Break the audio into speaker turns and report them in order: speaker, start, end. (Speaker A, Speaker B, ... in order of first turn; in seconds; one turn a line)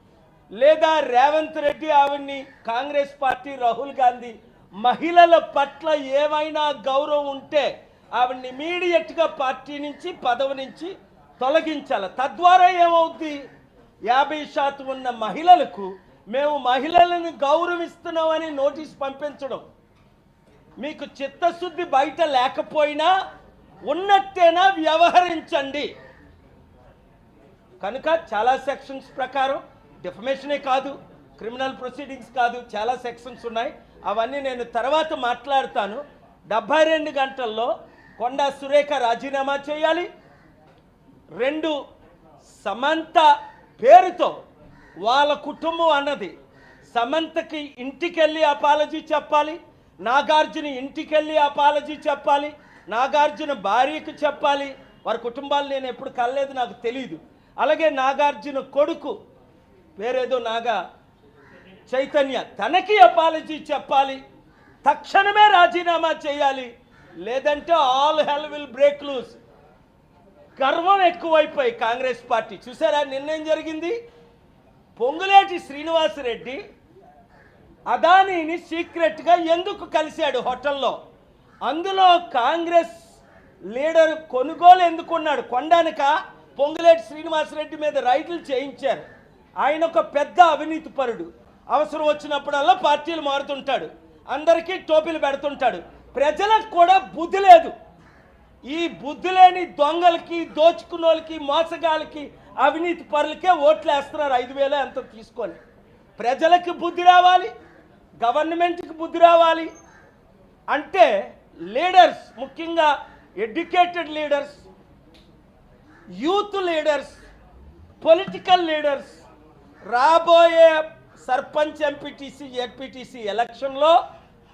Speaker A: 0.6-13.4
Speaker A: 14.1-19.6
Speaker A: 20.8-23.1
Speaker A: 23.9-25.9
Speaker A: 27.8-40.1
Speaker A: 41.4-41.8
Speaker A: 42.5-44.4
Speaker A: 45.0-46.3
Speaker A: 46.9-59.1
Speaker A: 60.0-60.8
Speaker A: 61.9-64.2
Speaker A: 64.8-66.7
Speaker A: 67.2-69.4
Speaker A: 70.6-74.0
Speaker A: 75.0-76.6
Speaker A: 77.9-81.0
Speaker A: 81.7-83.0
Speaker A: 83.7-89.1
Speaker A: 89.6-97.7
Speaker A: 98.7-105.6
Speaker A: 106.2-107.5
Speaker A: 108.2-109.7
Speaker A: 110.7-114.7
Speaker A: 116.2-117.2
Speaker A: 118.0-119.2
Speaker A: 119.9-124.0